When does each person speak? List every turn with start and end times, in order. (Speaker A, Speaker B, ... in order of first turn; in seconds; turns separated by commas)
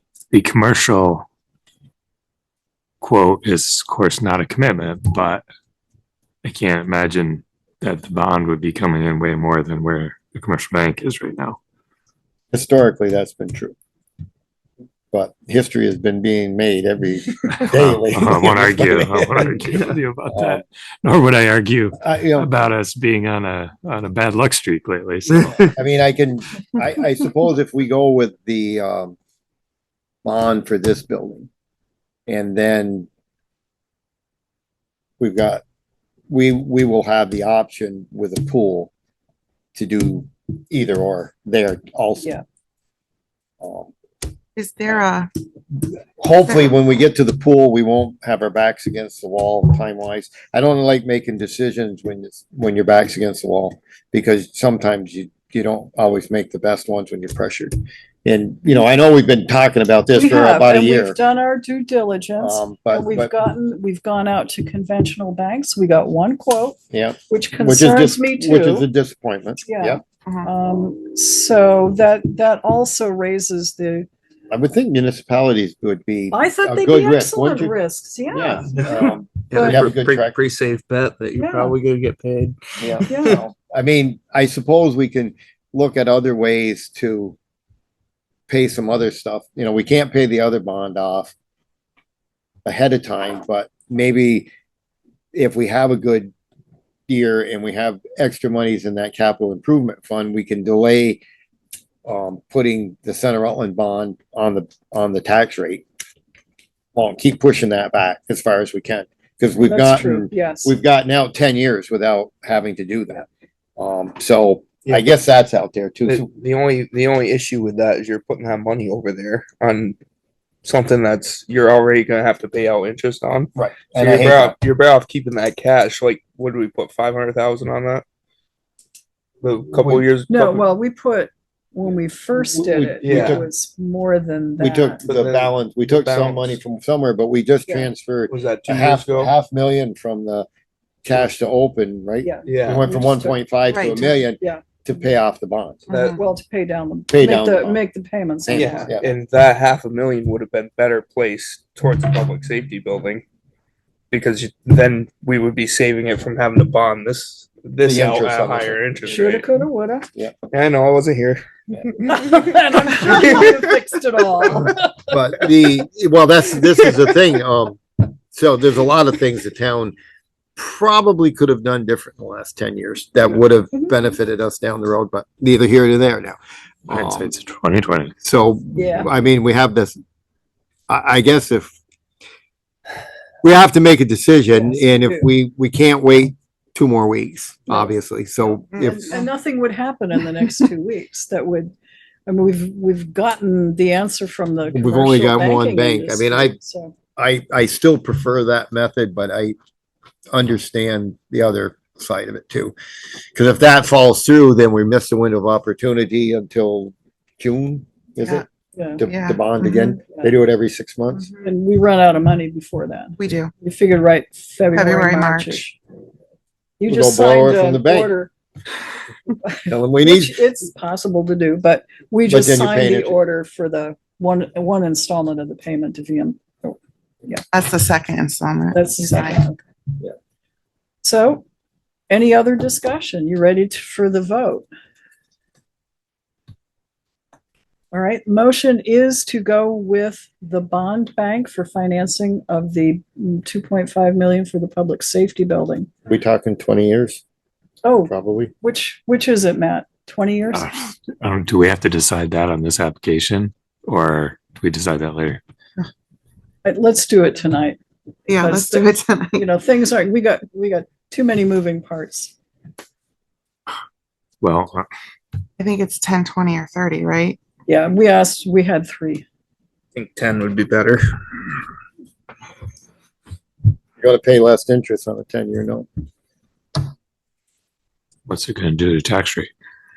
Speaker A: 0.3-1.3, Speaker A: 3.0-5.4, Speaker A: 6.4-11.6, Speaker B: 12.5-13.8, Speaker B: 15.1-18.8, Speaker A: 17.7-25.7, Speaker B: 20.3-20.6, Speaker B: 22.0-22.5, Speaker B: 25.7-29.2, Speaker B: 30.2-31.5, Speaker B: 32.3-33.1, Speaker B: 35.2-35.6, Speaker B: 36.3-38.9, Speaker B: 39.8-42.3, Speaker B: 43.6-43.9, Speaker C: 44.6-45.3, Speaker B: 45.8-61.2, Speaker D: 60.1-66.8, Speaker B: 62.4-63.3, Speaker B: 66.9-70.0, Speaker D: 67.3-68.9, Speaker D: 69.6-74.1, Speaker B: 74.5-77.8, Speaker D: 76.3-78.9, Speaker B: 78.3-80.4, Speaker E: 79.5-83.3, Speaker D: 81.4-81.8, Speaker B: 82.8-87.4, Speaker D: 83.1-83.4, Speaker B: 88.5-91.3, Speaker B: 92.7-94.5, Speaker B: 95.3-96.3, Speaker B: 97.1-101.2, Speaker B: 102.0-105.8, Speaker B: 107.0-113.3, Speaker D: 109.7-110.8, Speaker B: 113.8-116.3, Speaker E: 114.8-115.1, Speaker E: 116.0-120.0, Speaker E: 120.6-128.1, Speaker B: 123.6-124.6, Speaker E: 129.4-130.7, Speaker D: 130.3-135.0, Speaker B: 132.4-133.5, Speaker E: 133.0-133.5, Speaker B: 134.6-140.5, Speaker E: 135.1-136.6, Speaker E: 138.3-139.3, Speaker B: 141.0-145.9, Speaker D: 142.2-143.4, Speaker E: 142.5-142.9, Speaker C: 143.7-144.1, Speaker E: 145.9-146.2, Speaker C: 145.9-146.2, Speaker D: 146.1-148.9, Speaker B: 147.1-147.8, Speaker B: 148.4-149.1, Speaker E: 148.5-153.2, Speaker E: 154.1-159.5, Speaker B: 157.8-158.8, Speaker D: 159.1-160.1, Speaker E: 160.5-163.7, Speaker D: 162.1-164.9, Speaker B: 165.1-167.8, Speaker B: 168.3-169.9, Speaker B: 170.6-177.3, Speaker A: 176.9-178.1, Speaker B: 178.2-180.0, Speaker D: 178.8-179.1, Speaker B: 180.9-181.7, Speaker B: 183.4-189.3, Speaker D: 184.6-185.3, Speaker D: 188.7-191.7, Speaker D: 192.3-196.9, Speaker B: 194.7-196.6, Speaker B: 197.2-199.6, Speaker B: 200.3-202.7, Speaker B: 203.3-208.4, Speaker D: 208.8-209.0, Speaker B: 209.0-211.3, Speaker C: 209.0-210.0, Speaker D: 211.4-215.8, Speaker C: 213.2-213.5, Speaker C: 214.7-215.6, Speaker D: 216.8-218.3, Speaker B: 216.9-218.1, Speaker D: 219.4-227.4, Speaker B: 219.7-220.4, Speaker B: 222.3-223.2, Speaker C: 227.5-229.4, Speaker D: 228.7-229.6, Speaker D: 231.0-231.4, Speaker D: 232.1-234.7, Speaker D: 237.9-245.9, Speaker B: 246.1-247.2, Speaker D: 247.8-250.7, Speaker B: 248.1-248.5, Speaker A: 250.5-255.4, Speaker D: 256.6-257.8, Speaker C: 258.3-259.4, Speaker D: 258.4-262.3, Speaker A: 264.4-264.9, Speaker C: 265.6-267.4, Speaker D: 267.7-269.3, Speaker E: 269.9-271.0, Speaker B: 274.0-275.9, Speaker A: 278.3-279.5